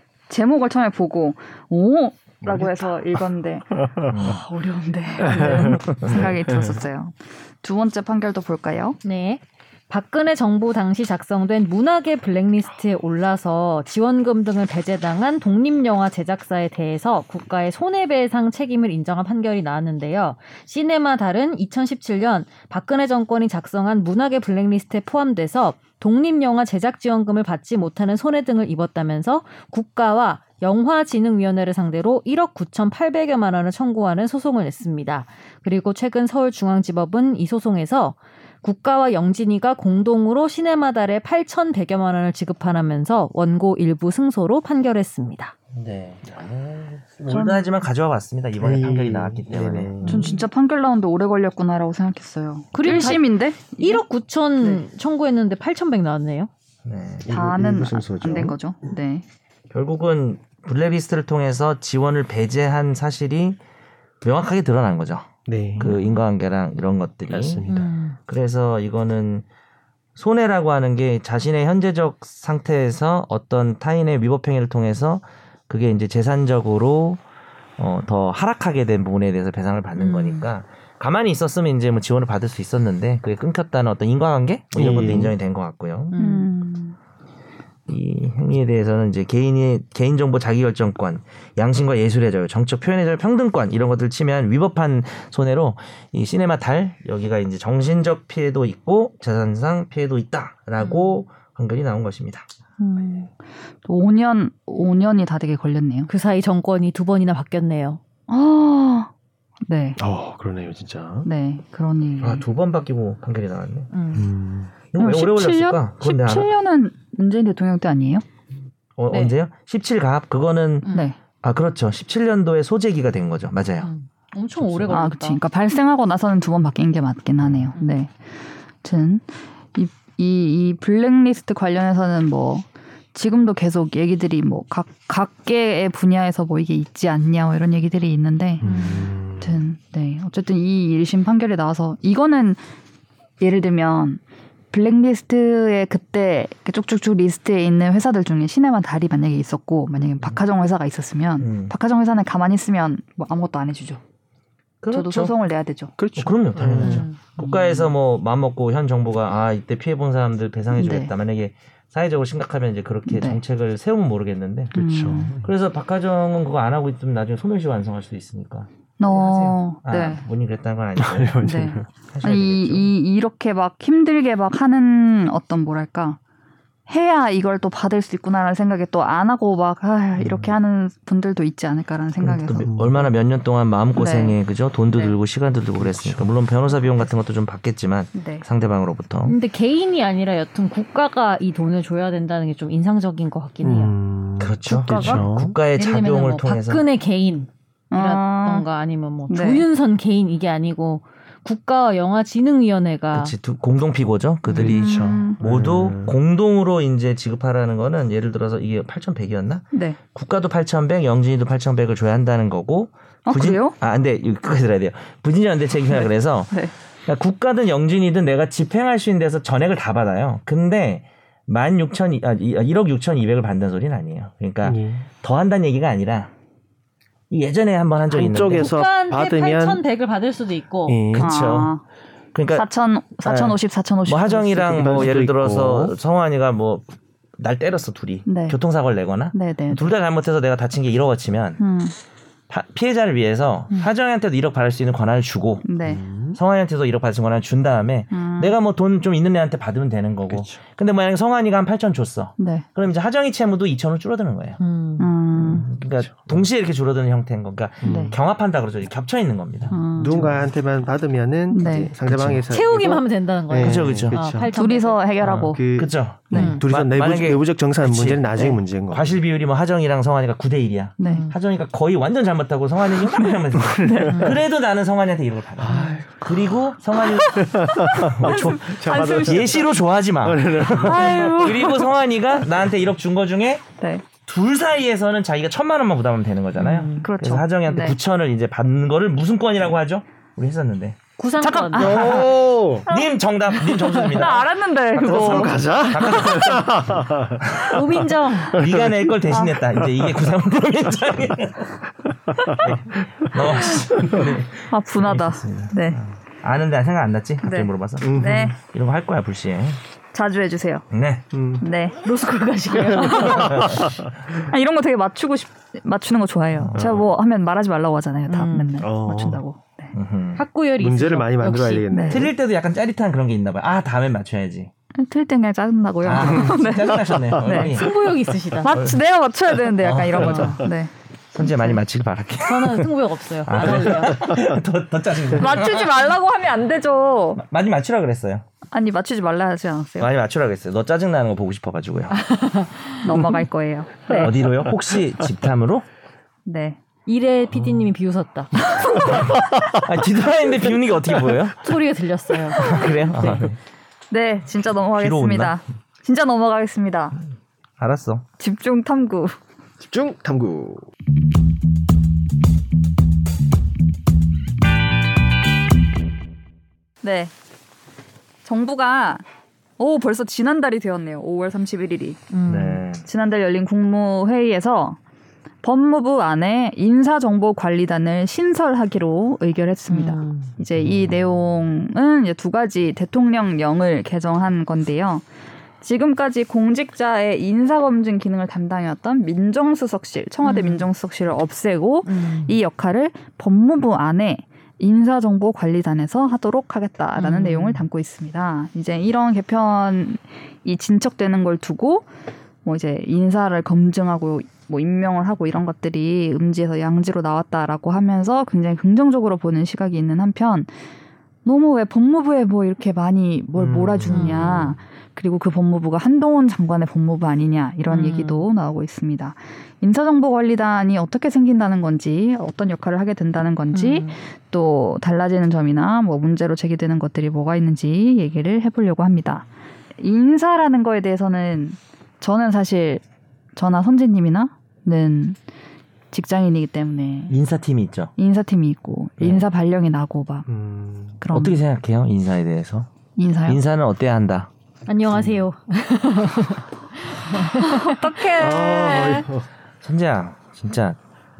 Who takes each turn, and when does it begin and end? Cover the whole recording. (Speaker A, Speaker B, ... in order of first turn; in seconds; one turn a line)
Speaker A: 0.3-9.0
Speaker B: 2.4-3.0
Speaker B: 3.8-4.1
Speaker C: 4.1-4.4
Speaker B: 5.2-6.7
Speaker C: 5.6-6.2
Speaker D: 9.0-45.5
Speaker C: 45.7-50.4
Speaker A: 47.3-47.6
Speaker B: 48.6-50.3
Speaker D: 50.0-50.3
Speaker A: 50.0-54.0
Speaker D: 52.7-56.5
Speaker C: 56.8-57.3
Speaker B: 57.2-58.6
Speaker A: 57.3-59.2
Speaker C: 59.7-63.6
Speaker C: 64.2-67.6
Speaker B: 65.5-66.0
Speaker B: 67.3-67.9
Speaker D: 67.7-68.2
Speaker C: 68.2-69.4
Speaker C: 70.2-77.2
Speaker C: 77.8-86.1
Speaker D: 80.0-80.4
Speaker B: 84.7-85.3
Speaker D: 86.1-86.5
Speaker A: 86.2-87.0
Speaker C: 87.9-102.4
Speaker D: 100.8-101.1
Speaker A: 102.8-103.3
Speaker A: 103.8-106.1
Speaker D: 106.1-108.0
Speaker A: 108.3-109.1
Speaker A: 109.7-110.0
Speaker B: 110.0-111.3
Speaker A: 111.2-112.4
Speaker C: 112.2-113.9
Speaker D: 113.9-114.3
Speaker B: 114.1-114.7
Speaker C: 114.9-116.5
Speaker A: 115.0-118.2
Speaker C: 119.0-120.9
Speaker D: 119.1-119.3
Speaker A: 120.9-121.2
Speaker C: 121.4-123.9
Speaker D: 123.8-125.4
Speaker C: 124.6-125.0
Speaker A: 124.9-128.1
Speaker A: 128.8-142.6
Speaker B: 138.6-139.6
Speaker D: 138.6-139.1
Speaker A: 143.4-144.2
Speaker A: 144.7-154.0
Speaker C: 151.4-151.7
Speaker C: 154.8-155.3
Speaker A: 154.9-155.9
Speaker B: 156.0-157.1
Speaker C: 156.2-172.9
Speaker D: 156.6-157.8
Speaker A: 160.7-161.1
Speaker A: 163.1-163.4
Speaker A: 164.7-165.3
Speaker B: 164.7-165.5
Speaker A: 169.0-170.2
Speaker B: 171.0-171.9
Speaker A: 171.4-176.2
Speaker A: 176.9-182.7
Speaker C: 182.2-189.3
Speaker A: 183.9-184.3
Speaker B: 185.8-186.3
Speaker A: 188.1-188.4
Speaker D: 189.2-193.9
Speaker B: 193.6-195.6
Speaker C: 194.4-196.8
Speaker A: 194.7-195.2
Speaker D: 194.9-195.2
Speaker D: 195.8-203.3
Speaker A: 197.9-198.7
Speaker A: 199.3-199.6
Speaker C: 203.1-226.3
Speaker A: 204.6-205.4
Speaker B: 204.6-206.2
Speaker A: 209.7-210.0
Speaker A: 213.2-213.7
Speaker B: 224.6-225.0
Speaker C: 227.3-228.7
Speaker B: 228.1-229.8
Speaker D: 228.2-231.0
Speaker B: 230.8-231.4
Speaker C: 231.1-231.7
Speaker A: 231.2-231.8
Speaker C: 232.3-232.7
Speaker A: 232.5-234.9
Speaker C: 233.2-236.9
Speaker B: 234.5-235.9
Speaker C: 237.4-241.6
Speaker A: 238.2-238.6
Speaker A: 239.3-239.9
Speaker A: 241.6-241.9
Speaker C: 242.5-245.7
Speaker A: 245.6-246.0
Speaker B: 245.8-246.4
Speaker C: 246.3-254.6
Speaker A: 248.1-248.6
Speaker B: 250.3-250.6
Speaker A: 252.4-252.7
Speaker D: 254.6-255.1
Speaker A: 255.0-255.7
Speaker C: 255.3-260.3
Speaker B: 257.8-258.1
Speaker A: 257.8-258.1
Speaker A: 259.7-260.3
Speaker B: 259.9-264.5
Speaker A: 261.5-261.9
Speaker C: 262.1-262.4
Speaker D: 262.5-265.0
Speaker C: 263.5-264.2
Speaker A: 264.5-265.6
Speaker C: 265.2-283.6
Speaker B: 265.3-269.2
Speaker A: 266.3-266.6
Speaker D: 266.3-266.6
Speaker A: 271.0-271.3
Speaker A: 273.1-274.2
Speaker B: 275.6-276.1
Speaker B: 277.3-279.7
Speaker A: 278.2-279.6
Speaker B: 280.2-281.8
Speaker A: 280.9-281.9
Speaker A: 283.8-284.0
Speaker C: 284.2-294.5
Speaker D: 286.6-287.1
Speaker A: 287.0-288.0
Speaker D: 291.2-292.2
Speaker A: 291.5-296.4
Speaker B: 291.8-292.9
Speaker D: 293.7-294.2
Speaker B: 295.0-297.8
Speaker C: 295.0-296.8
Speaker C: 297.4-297.8
Speaker D: 297.6-298.6
Speaker C: 298.5-301.9
Speaker B: 298.6-299.1
Speaker B: 299.8-300.1
Speaker B: 302.3-302.8
Speaker C: 302.6-309.8
Speaker A: 304.7-306.0
Speaker A: 307.4-308.6
Speaker B: 308.0-308.5
Speaker A: 310.1-310.8
Speaker C: 310.9-311.2
Speaker B: 311.3-311.6
Speaker A: 311.6-312.0
Speaker D: 312.0-313.9
Speaker A: 312.9-319.9
Speaker C: 313.5-313.8
Speaker B: 313.6-313.9
Speaker C: 316.6-317.0
Speaker B: 316.8-317.0
Speaker D: 318.3-318.7
Speaker B: 318.8-319.4
Speaker C: 319.9-320.4
Speaker D: 320.4-321.9
Speaker B: 320.8-322.3
Speaker A: 321.9-322.2
Speaker C: 322.1-324.7
Speaker A: 324.9-327.8
Speaker C: 326.0-327.9
Speaker D: 327.5-328.9
Speaker A: 328.6-331.7
Speaker C: 329.8-330.7
Speaker C: 331.3-332.9
Speaker D: 332.4-334.4
Speaker C: 333.4-336.1
Speaker A: 335.3-337.4
Speaker C: 337.4-338.4
Speaker A: 338.7-340.1
Speaker C: 340.0-342.2
Speaker D: 342.3-343.0
Speaker A: 343.0-344.3
Speaker C: 344.1-345.9
Speaker A: 346.4-346.8
Speaker D: 347.1-348.6
Speaker A: 348.8-349.3
Speaker C: 349.0-351.7
Speaker D: 351.6-353.5
Speaker C: 352.5-353.6
Speaker A: 354.1-357.2
Speaker C: 355.0-355.6
Speaker C: 357.8-358.2
Speaker A: 358.4-359.4
Speaker B: 359.8-360.9
Speaker A: 367.0-367.3
Speaker A: 368.4-369.2
Speaker A: 369.8-372.2
Speaker D: 372.3-372.8
Speaker C: 372.4-373.1
Speaker A: 373.0-375.0
Speaker A: 375.6-385.2
Speaker D: 379.9-380.5
Speaker A: 385.8-402.1
Speaker D: 390.4-390.9
Speaker D: 392.1-392.6
Speaker D: 397.1-397.8
Speaker A: 402.6-410.7
Speaker A: 411.4-429.5
Speaker B: 413.6-414.8
Speaker D: 414.1-414.7
Speaker D: 417.9-418.4
Speaker D: 423.7-424.1
Speaker A: 430.0-433.0
Speaker A: 433.6-435.4
Speaker A: 436.1-437.3
Speaker C: 437.3-438.1
Speaker A: 438.2-440.5
Speaker C: 439.2-439.4
Speaker B: 440.5-441.2
Speaker A: 441.2-441.6
Speaker C: 441.3-442.9
Speaker A: 443.2-443.6
Speaker C: 443.5-444.5
Speaker D: 444.9-448.1
Speaker B: 445.1-445.4
Speaker A: 447.6-449.3
Speaker B: 448.3-449.5
Speaker C: 449.8-451.0